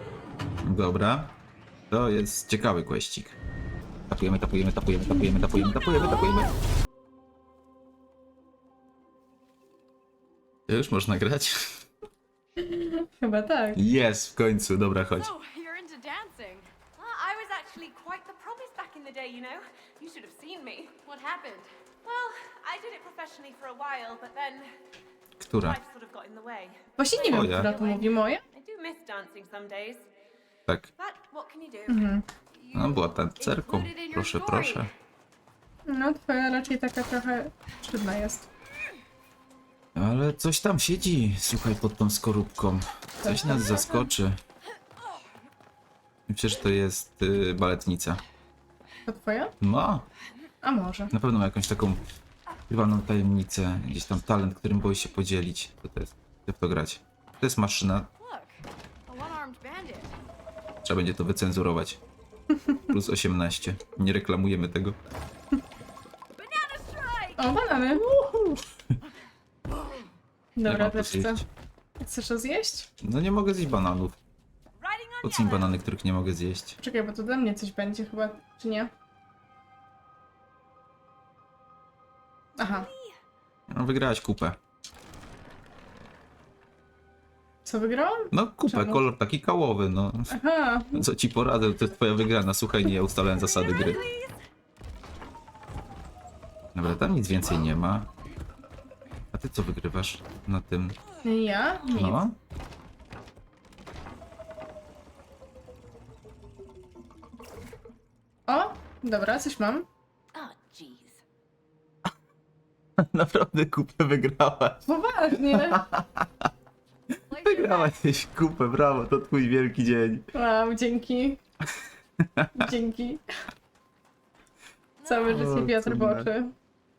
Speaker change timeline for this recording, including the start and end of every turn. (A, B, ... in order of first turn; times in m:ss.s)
0:00.6-0:01.4 A
0:01.9-0:03.4 A
0:04.1-0:06.5 A
0:10.7-0:11.6 A
0:12.6-0:13.8 B
0:13.8-0:15.3 A
0:15.2-0:16.7 C
0:17.0-0:21.0 D
0:21.1-0:21.7 C
0:22.0-0:24.8 D
0:25.4-0:25.8 A
0:25.5-0:30.1 D
0:27.0-0:28.4 B
0:27.2-0:27.7 A
0:31.0-0:32.2 D
0:31.9-0:32.2 B
0:32.5-0:34.9 C
0:32.7-0:34.9 A
0:35.9-0:38.5 B
0:40.0-0:44.4 A
0:43.2-0:44.1 B
0:46.3-0:48.2 A
0:49.1-0:49.5 B
0:49.6-0:50.1 A
0:50.6-0:51.1 B
0:51.1-0:52.0 A
0:52.7-0:58.1 A
0:58.2-1:00.2 C
1:00.8-1:02.0 A
1:02.5-1:02.8 B
1:02.9-1:05.0 A
1:06.3-1:07.6 C
1:07.4-1:08.0 B
1:08.0-1:08.6 A
1:10.6-1:11.4 B
1:10.6-1:11.5 A
1:12.0-1:12.9 B
1:13.0-1:14.2 A
1:14.8-1:15.8 D
1:15.2-1:16.8 A
1:16.8-1:18.9 B
1:22.6-1:23.2 D
1:22.6-1:22.9 B
1:23.7-1:24.6 A
1:27.6-1:29.0 B
1:28.3-1:30.4 A
1:30.3-1:31.0 B
1:30.9-1:34.0 A
1:33.4-1:34.4 D
1:36.7-1:38.1 A
1:39.3-1:41.0 A
1:41.2-1:42.2 B
1:41.9-1:42.4 A
1:48.5-1:49.9 B
1:50.3-1:51.2 D
1:53.0-1:56.5 A
1:54.9-1:55.8 B
1:57.3-1:58.0 C
1:57.4-2:00.3 A
2:00.3-2:01.4 B
2:02.2-2:02.7 A
2:02.6-2:03.2 B
2:05.0-2:05.5 C
2:05.0-2:06.6 B
2:05.2-2:06.3 A